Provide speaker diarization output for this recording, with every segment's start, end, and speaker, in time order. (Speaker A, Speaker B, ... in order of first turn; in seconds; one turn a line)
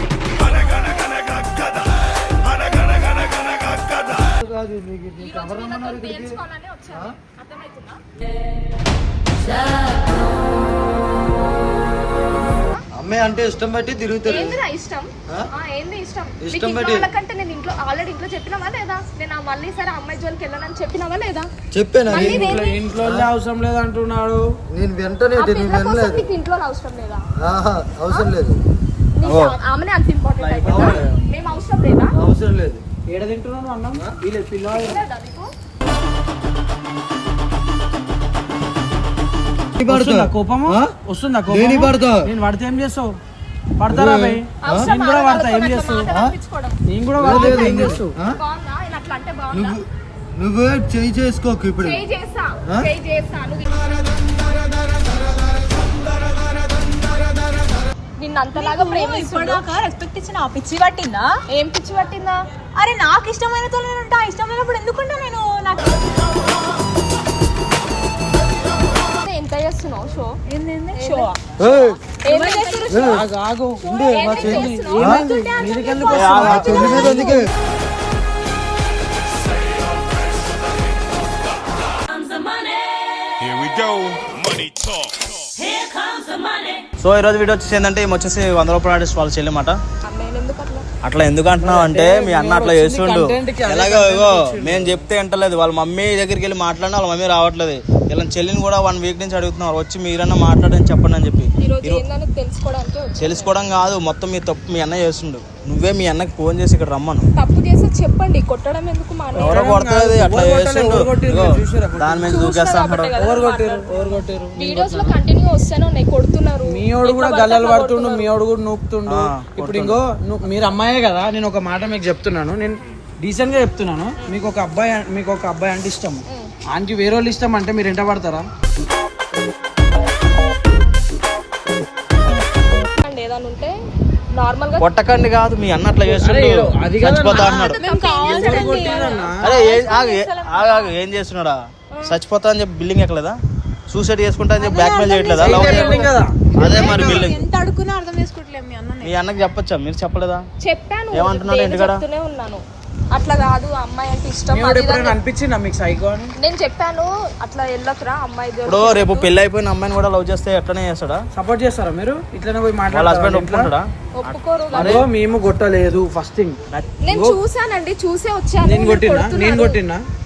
Speaker A: 0.3-1.3
Speaker B: 4.2-6.4
Speaker A: 5.2-8.0
Speaker B: 12.9-14.6
Speaker A: 14.2-21.5
Speaker B: 16.4-17.1
Speaker B: 21.7-23.3
Speaker A: 22.1-22.8
Speaker C: 22.1-24.4
Speaker B: 24.7-26.3
Speaker A: 25.4-27.2
Speaker B: 27.4-28.6
Speaker A: 28.1-28.3
Speaker A: 29.2-32.1
Speaker D: 29.2-29.5
Speaker D: 30.4-31.2
Speaker B: 30.6-31.0
Speaker B: 32.1-32.8
Speaker C: 33.1-35.0
Speaker A: 34.7-35.5
Speaker B: 39.8-40.9
Speaker C: 39.9-43.2
Speaker B: 41.5-42.3
Speaker C: 43.8-46.1
Speaker B: 43.9-44.9
Speaker A: 44.6-46.8
Speaker B: 46.1-46.3
Speaker C: 46.9-48.1
Speaker B: 47.2-48.4
Speaker A: 47.3-49.8
Speaker B: 49.5-52.0
Speaker A: 51.8-54.2
Speaker A: 58.2-59.6
Speaker E: 58.5-61.3
Speaker A: 61.5-62.4
Speaker E: 62.8-66.0
Speaker A: 69.0-70.3
Speaker E: 70.5-71.4
Speaker A: 71.0-71.3
Speaker B: 71.6-72.0
Speaker A: 72.2-73.2
Speaker E: 72.3-73.0
Speaker B: 72.9-73.2
Speaker C: 73.0-73.8
Speaker B: 73.8-75.2
Speaker A: 73.9-75.2
Speaker C: 74.4-77.4
Speaker E: 75.0-77.5
Speaker D: 76.0-77.2
Speaker B: 76.3-77.5
Speaker D: 87.0-89.8
Speaker A: 90.0-90.8
Speaker D: 91.0-102.0
Speaker C: 91.6-95.1
Speaker A: 101.6-103.5
Speaker D: 103.2-107.3
Speaker A: 107.3-109.7
Speaker C: 109.3-112.4
Speaker D: 109.3-113.2
Speaker A: 112.3-118.3
Speaker C: 113.2-115.2
Speaker C: 116.7-128.4
Speaker D: 119.1-120.0
Speaker A: 133.0-133.7
Speaker A: 134.3-134.8
Speaker D: 134.8-137.8
Speaker C: 136.0-139.4
Speaker A: 137.3-139.3
Speaker E: 137.7-141.0
Speaker D: 139.4-141.6
Speaker D: 142.1-143.4
Speaker D: 143.9-147.4
Speaker E: 144.5-146.1
Speaker C: 145.3-147.3
Speaker E: 146.7-149.1
Speaker D: 149.0-150.4
Speaker A: 150.6-152.6
Speaker D: 151.1-152.0
Speaker A: 153.1-155.2
Speaker C: 154.5-156.3
Speaker A: 156.4-159.3
Speaker D: 158.7-161.2
Speaker C: 161.3-163.7
Speaker D: 162.9-165.1
Speaker A: 164.2-165.0
Speaker C: 164.7-166.6
Speaker D: 166.7-167.0
Speaker A: 167.0-169.8
Speaker C: 167.1-167.4
Speaker C: 168.6-170.0